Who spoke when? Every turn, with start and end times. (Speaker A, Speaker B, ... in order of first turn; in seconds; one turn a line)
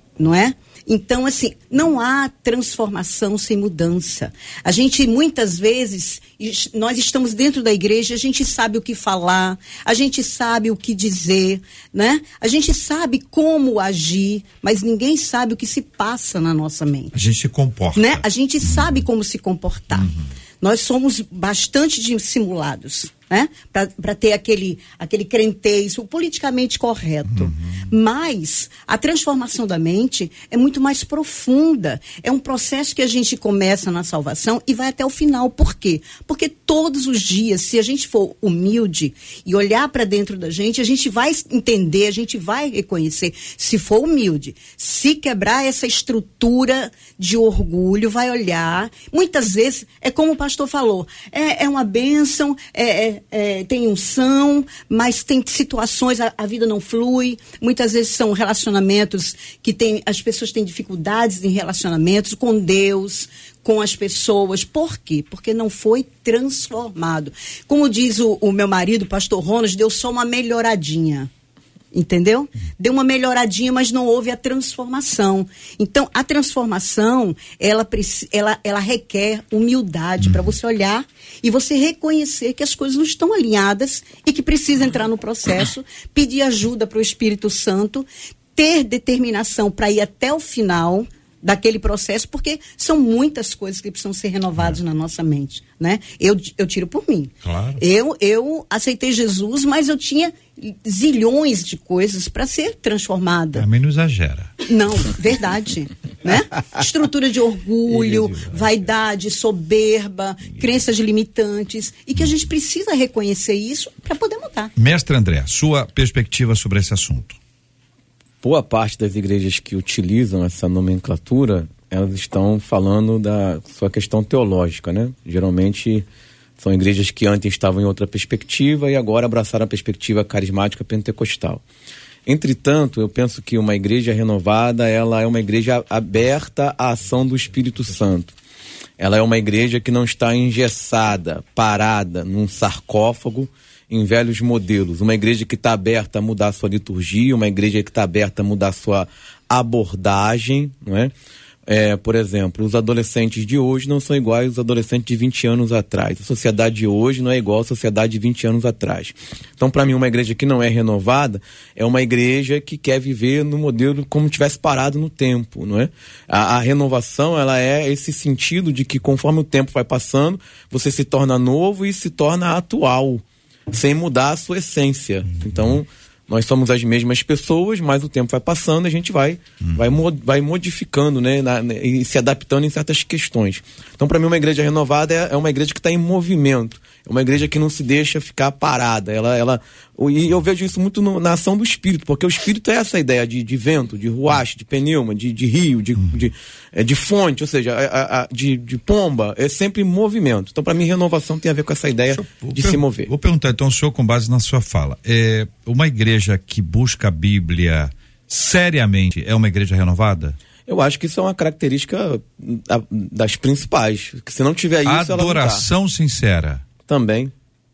Speaker A: 0.2-17.1
Speaker B: 17.1-18.2
Speaker A: 18.0-71.3
Speaker B: 19.9-20.3
Speaker B: 27.3-27.9
Speaker A: 71.9-103.7
Speaker B: 97.4-97.8
Speaker B: 103.5-104.5
Speaker A: 104.6-114.7
Speaker B: 114.8-117.4
Speaker C: 118.4-126.1
Speaker C: 126.6-131.6
Speaker C: 132.3-138.3
Speaker C: 139.0-151.1
Speaker C: 151.7-203.1
Speaker B: 179.6-179.9
Speaker B: 202.1-210.4
Speaker C: 210.7-215.7
Speaker B: 214.8-216.7
Speaker C: 216.8-217.3